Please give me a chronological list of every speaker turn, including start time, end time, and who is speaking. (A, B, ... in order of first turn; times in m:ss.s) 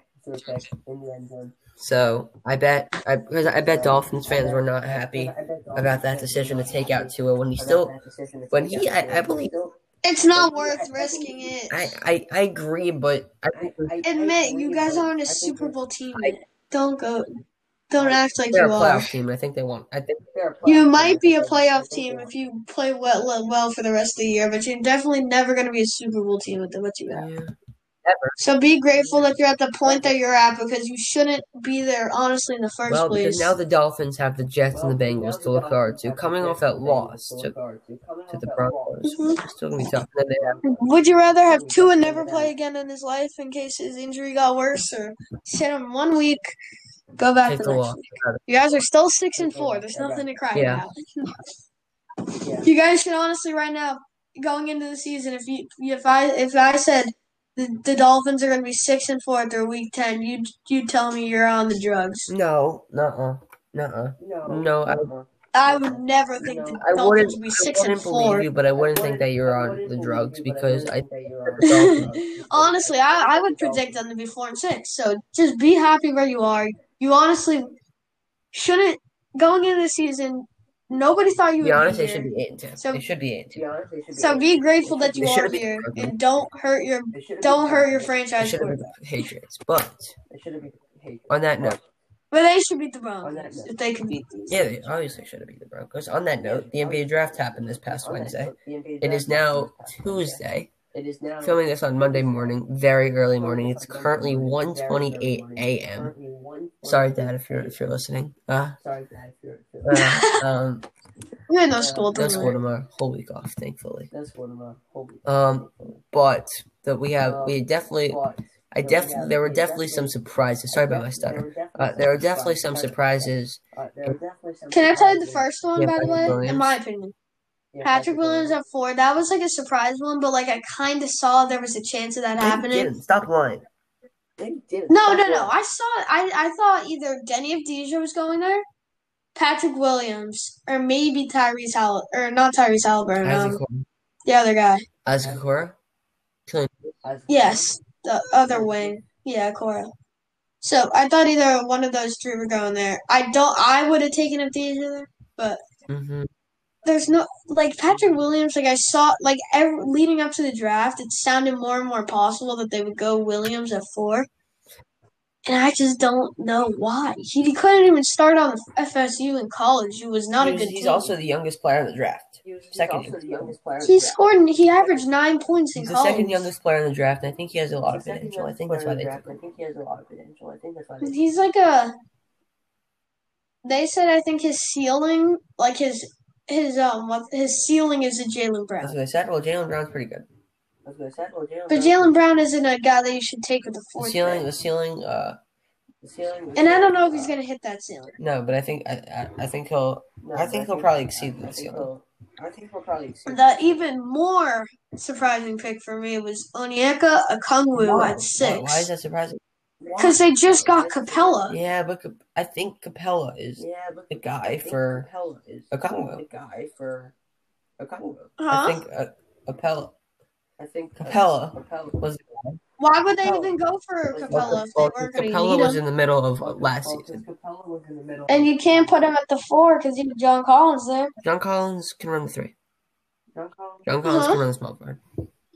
0:00.2-0:01.6 A
0:01.8-0:07.9 B
0:03.6-0:09.8 A
0:08.5-0:09.5 B
0:10.0-0:12.0 C
0:10.3-0:11.6 A
0:11.7-0:13.9 B
0:13.5-0:15.8 A
0:14.0-0:17.3 C
0:17.9-0:19.1 C
0:18.0-0:18.2 A
0:18.5-0:20.2 B
0:20.3-0:22.3 A
0:20.6-0:27.2 C
0:27.1-0:27.5 B
0:28.0-0:28.4 B
0:28.4-0:33.6 C
0:28.9-0:30.2 A
0:32.9-0:37.6 B
0:34.7-0:39.0 A
0:38.3-0:40.6 B
0:39.0-0:39.4 C
0:40.4-0:42.5 A
0:40.6-0:46.5 C
0:47.2-0:51.4 C
0:47.4-0:48.4 B
0:49.4-0:50.3 A
0:50.5-0:50.9 B
0:52.4-0:52.7 A
0:52.6-1:02.3 C
1:02.3-1:05.1 B
1:04.2-1:06.8 A
1:05.5-1:08.5 C
1:06.7-1:12.2 B
1:08.7-1:14.0 A
1:11.6-1:17.7 C
1:18.5-1:23.1 C
1:21.6-1:23.6 B
1:23.5-1:25.6 A
1:24.1-1:28.9 C
1:25.2-1:26.2 B
1:27.1-1:28.2 A
1:28.4-1:30.2 B
1:30.3-1:31.8 A
1:31.3-1:31.8 B
1:32.3-1:34.7 C
1:33.2-1:34.2 A
1:34.5-1:40.7 B
1:36.4-1:42.6 A
1:41.4-1:46.1 B
1:43.4-1:47.8 A
1:46.8-1:48.8 B
1:48.8-1:50.1 A
1:49.8-1:50.9 B
1:49.9-1:50.4 C
1:51.5-1:52.6 C
1:51.8-1:52.4 A
1:52.1-1:54.1 B
1:54.1-1:56.0 A
1:55.2-2:04.2 B
1:57.2-2:00.1 A
2:00.7-2:05.5 A
2:04.7-2:07.1 C
2:05.8-2:06.7 B
2:07.7-2:08.6 A
2:07.8-2:12.9 C
2:12.4-2:13.6 B
2:14.4-2:15.5 A
2:14.9-2:18.6 C
2:19.4-2:23.6 C
2:23.2-2:23.9 B
2:24.2-2:24.8 C
2:25.0-2:25.8 B
2:26.5-2:26.9 B
2:27.0-2:27.7 A
2:27.3-2:29.9 C
2:28.5-2:29.0 A
2:30.6-2:35.6 C
2:35.9-2:36.3 B
2:36.8-2:44.3 C
2:37.9-2:38.3 A
2:45.4-2:51.1 C
2:50.4-2:53.5 B
2:52.4-2:55.2 A
2:53.8-2:56.5 C
2:55.8-2:59.4 B
2:57.9-3:01.2 A
3:01.0-3:01.9 C
3:03.6-3:09.0 C
3:08.8-3:10.3 B
3:10.8-3:12.3 A
3:11.7-3:14.4 C
3:14.0-3:15.4 B
3:16.0-3:17.4 A
3:16.6-3:18.1 C
3:18.2-3:21.9 B
3:20.2-3:23.8 A
3:23.3-3:28.9 C
3:27.7-3:29.4 B
3:29.8-3:31.5 A
3:30.0-3:31.6 C
3:31.5-3:35.1 B
3:33.6-3:37.1 A
3:35.7-3:36.2 B
3:37.8-3:38.3 A
3:38.4-3:38.8 C
3:38.5-3:39.9 B
3:40.6-3:42.0 A
3:41.0-3:42.6 B
3:42.8-3:45.8 C
3:43.2-3:44.7 A
3:44.3-3:47.2 B
3:46.4-3:49.0 A
3:48.3-3:51.1 C
3:51.2-3:52.5 B
3:53.3-3:53.9 A
3:53.9-3:55.0 B
3:54.0-3:54.4 C